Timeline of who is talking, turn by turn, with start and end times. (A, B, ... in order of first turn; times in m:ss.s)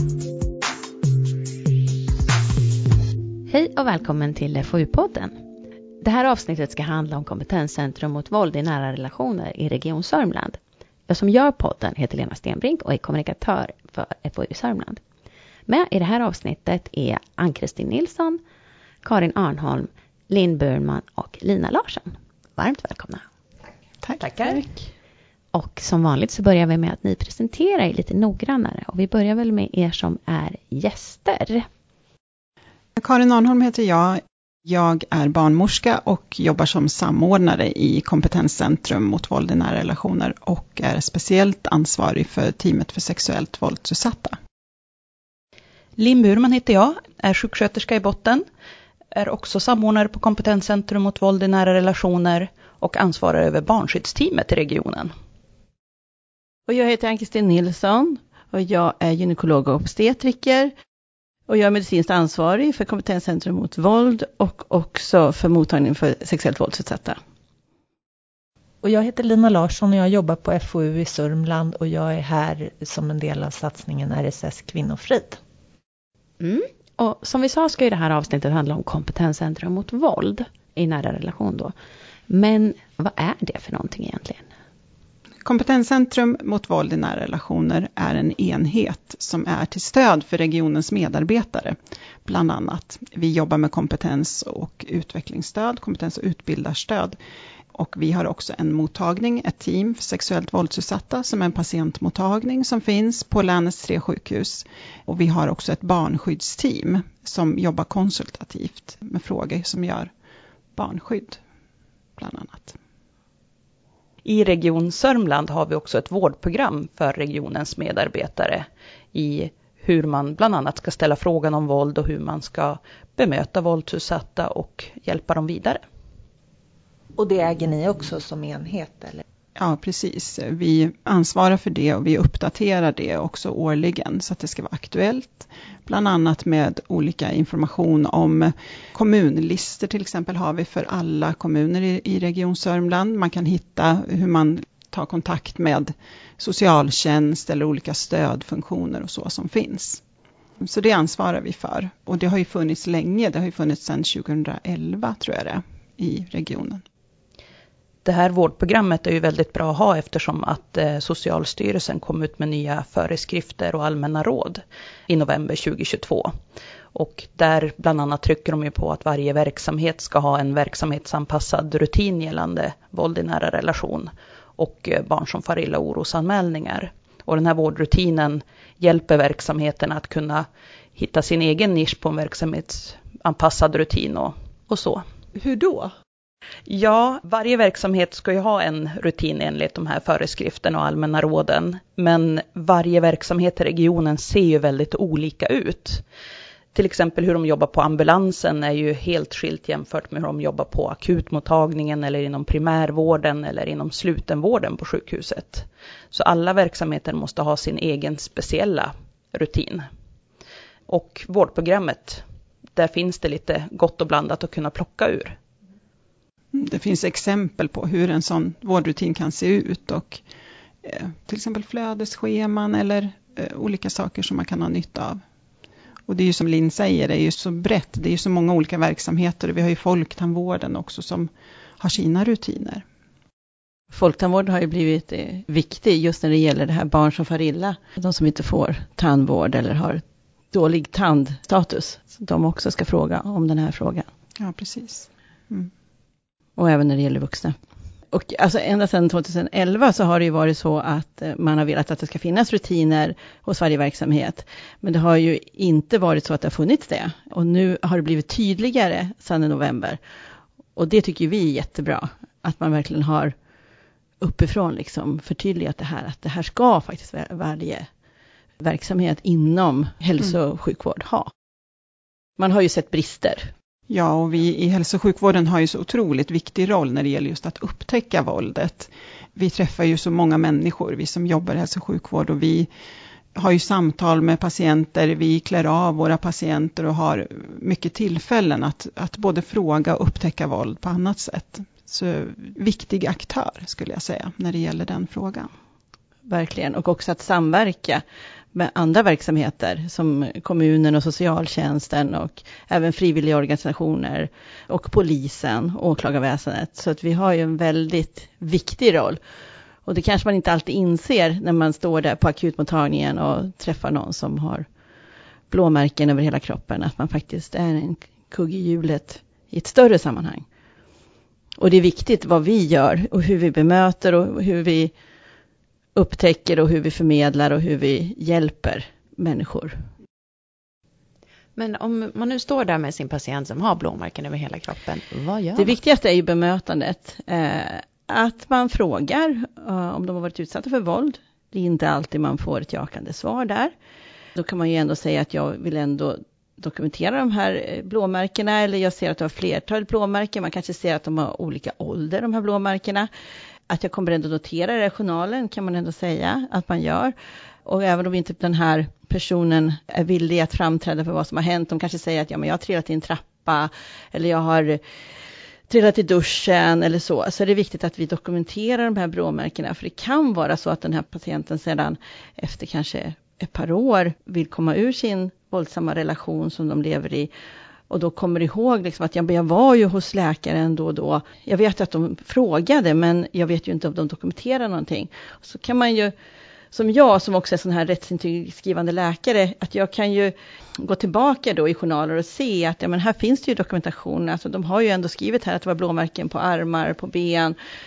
0:03.5-0:05.4 A
0:06.0-0:15.0 A
0:15.7-0:18.4 A
0:19.0-0:23.2 A
0:25.5-0:31.7 A
0:33.0-0:44.4 B
0:46.0-0:48.4 C
0:49.1-0:55.1 C
0:56.7-1:00.7 D
1:01.5-1:07.2 D
1:08.8-1:15.4 E
1:16.4-1:21.7 A
1:22.3-1:24.5 A
1:25.4-1:37.2 B
1:37.7-1:50.1 B
1:50.8-1:51.4 B
1:52.2-1:52.8 B
1:54.2-2:05.8 C
2:07.2-2:09.2 E
2:09.6-2:30.0 B
2:30.6-2:36.8 B
2:38.0-2:46.3 C
2:46.9-3:05.0 C
3:05.4-3:05.9 E
3:06.7-3:16.0 C
3:16.7-3:29.9 C
3:30.9-3:32.2 C
3:32.8-3:35.4 C
3:36.5-3:40.2 B
3:40.8-3:45.2 B
3:46.1-3:52.8 B
3:53.9-4:04.1 D
4:04.4-4:05.7 B
4:06.6-4:07.6 D
4:08.1-4:20.0 D
4:20.8-4:23.4 D
4:24.2-4:27.9 D
4:28.6-4:31.3 D
4:32.4-4:33.5 D
4:33.9-4:42.7 B
4:43.4-4:55.5 B
4:56.3-4:58.0 D
4:58.5-5:09.2 D
5:09.9-5:14.7 D
5:15.5-5:20.4 D
5:21.6-5:24.9 D
5:26.0-5:29.8 D
5:31.6-5:35.8 A
5:35.6-5:43.7 D
5:44.4-5:53.1 D
5:53.7-5:57.1 D
5:57.6-6:04.8 D
6:05.7-6:17.3 D
6:17.9-6:26.1 D
6:26.7-6:37.6 D